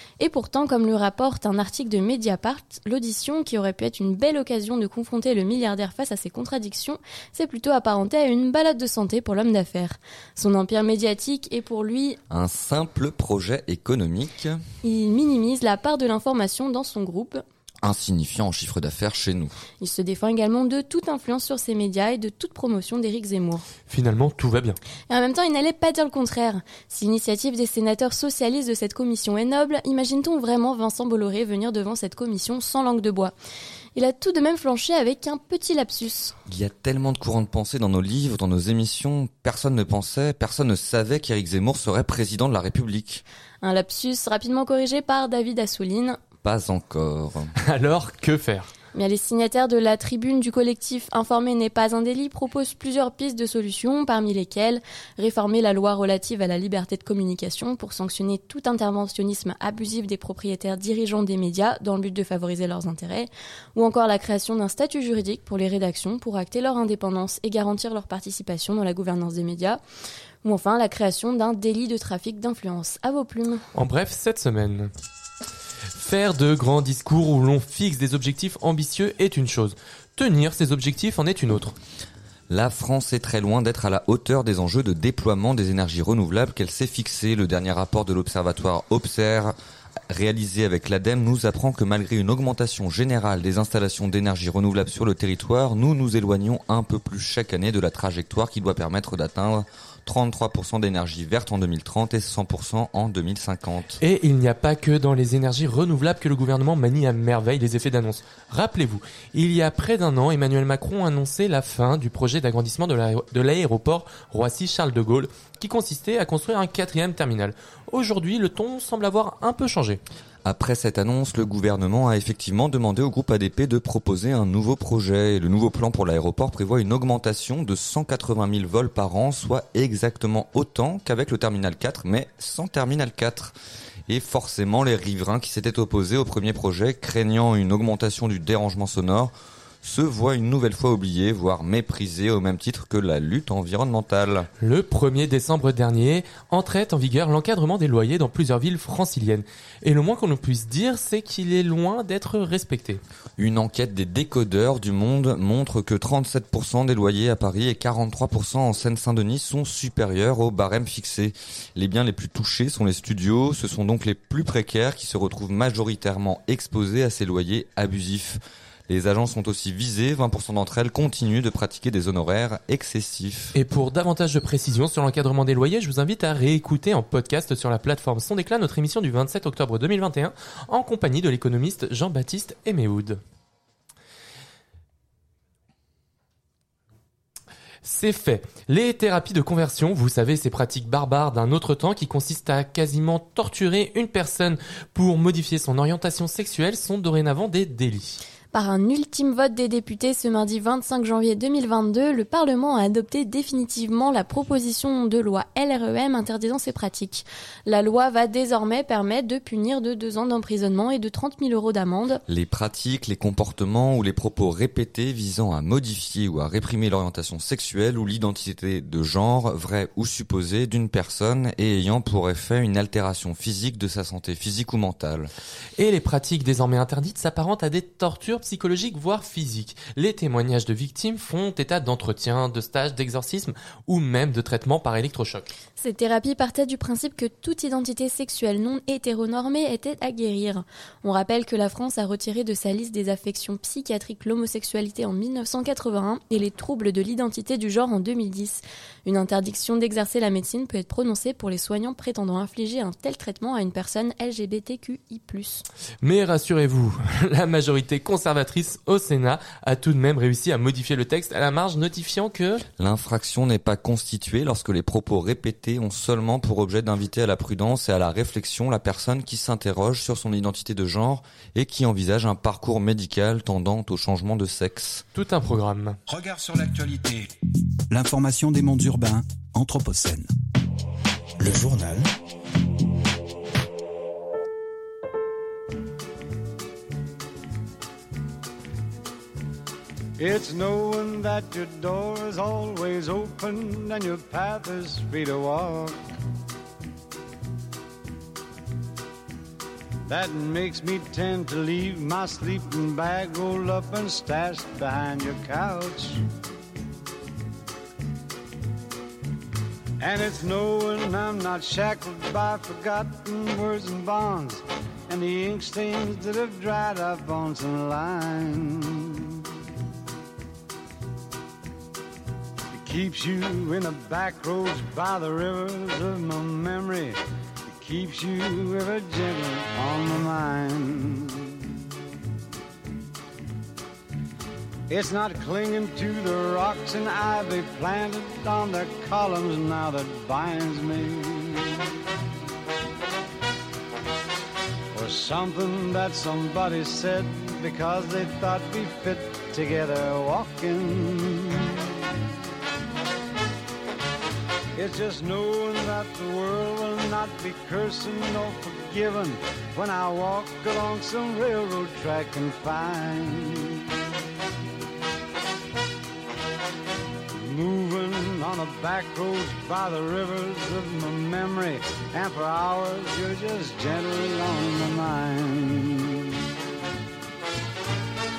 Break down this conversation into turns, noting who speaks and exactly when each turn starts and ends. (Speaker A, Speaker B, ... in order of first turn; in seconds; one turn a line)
Speaker A: 0.2-12.2
Speaker B: 12.3-14.6
Speaker A: 14.8-17.4
Speaker B: 17.8-19.6
Speaker A: 19.8-23.6
Speaker C: 23.9-24.8
Speaker A: 25.1-33.3
Speaker A: 33.9-36.4
Speaker B: 36.5-43.2
Speaker A: 43.6-46.2
Speaker B: 46.4-47.5
Speaker C: 47.6-48.7
Speaker A: 48.9-69.8
Speaker A: 70.4-73.6
Speaker C: 73.7-74.9
Speaker C: 75.9-81.8
Speaker B: 82.5-89.5
Speaker B: 90.1-104.0
Speaker C: 104.0-120.0
Speaker B: 120.4-133.5
Speaker B: 134.1-144.5
Speaker C: 144.6-153.0
Speaker B: 153.4-173.5
Speaker C: 173.6-183.2
Speaker C: 187.8-198.2
Speaker A: 198.5-212.2
Speaker B: 212.3-225.3
Speaker C: 225.8-235.5
Speaker A: 235.8-255.6
Speaker C: 256.0-262.6
Speaker B: 262.8-275.0
Speaker C: 275.1-276.0
Speaker D: 276.1-277.3
Speaker D: 277.9-280.3
Speaker D: 281.4-282.1
Speaker E: 290.2-296.0
Speaker E: 300.1-306.2
Speaker E: 310.0-319.4
Speaker E: 322.7-331.6
Speaker E: 334.9-341.8
Speaker E: 344.9-352.1
Speaker E: 354.8-363.9
Speaker E: 367.3-376.3